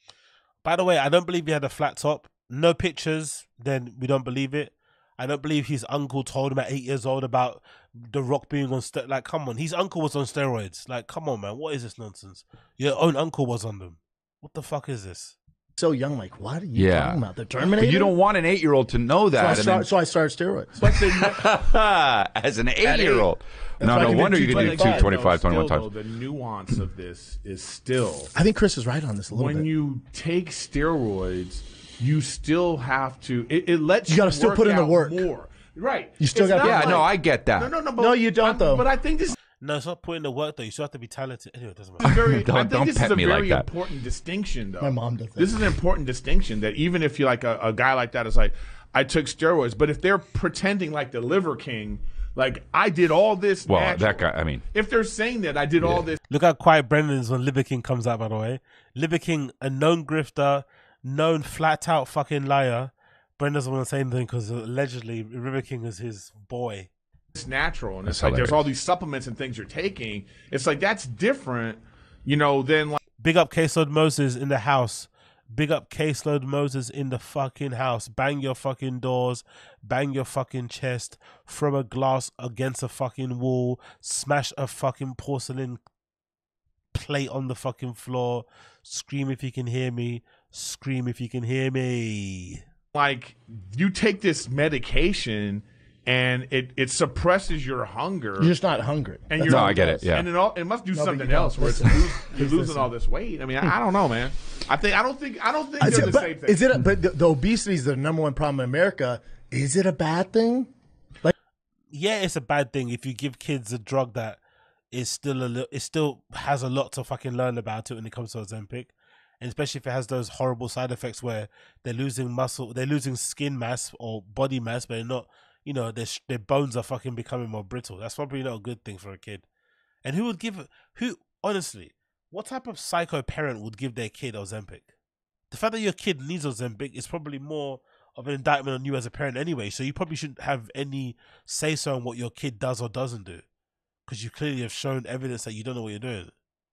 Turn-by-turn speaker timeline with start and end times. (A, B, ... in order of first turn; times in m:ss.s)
0:00.6-0:15.4 A
0:15.8-0:18.2 B
0:16.7-0:19.9 C
0:19.3-0:20.8 B
0:20.8-0:21.6 D
0:20.8-0:25.9 C
0:22.8-0:23.2 B
0:23.0-0:23.3 D
0:23.8-0:25.1 B
0:23.8-0:28.3 D
0:28.3-0:29.7 B
0:29.3-0:39.3 D
0:34.0-0:35.3 B
0:36.2-0:37.0 B
0:36.6-0:37.7 C
0:38.0-0:38.8 B
0:39.6-0:42.1 A
0:42.0-0:56.2 D
0:42.0-0:43.7 C
0:44.8-0:45.5 B
0:53.7-0:54.6 C
0:56.3-1:06.9 A
1:07.3-1:13.0 D
1:08.0-1:08.7 C
1:13.2-1:25.8 A
1:26.9-1:32.6 A
1:32.9-1:38.5 D
1:38.4-1:39.8 B
1:39.3-1:46.6 D
1:39.4-1:40.3 C
1:40.9-1:42.9 B
1:45.8-1:50.7 B
1:51.9-1:54.4 A
1:54.9-2:09.4 A
2:10.0-2:14.9 A
2:15.5-2:23.4 A
2:24.1-2:26.3 A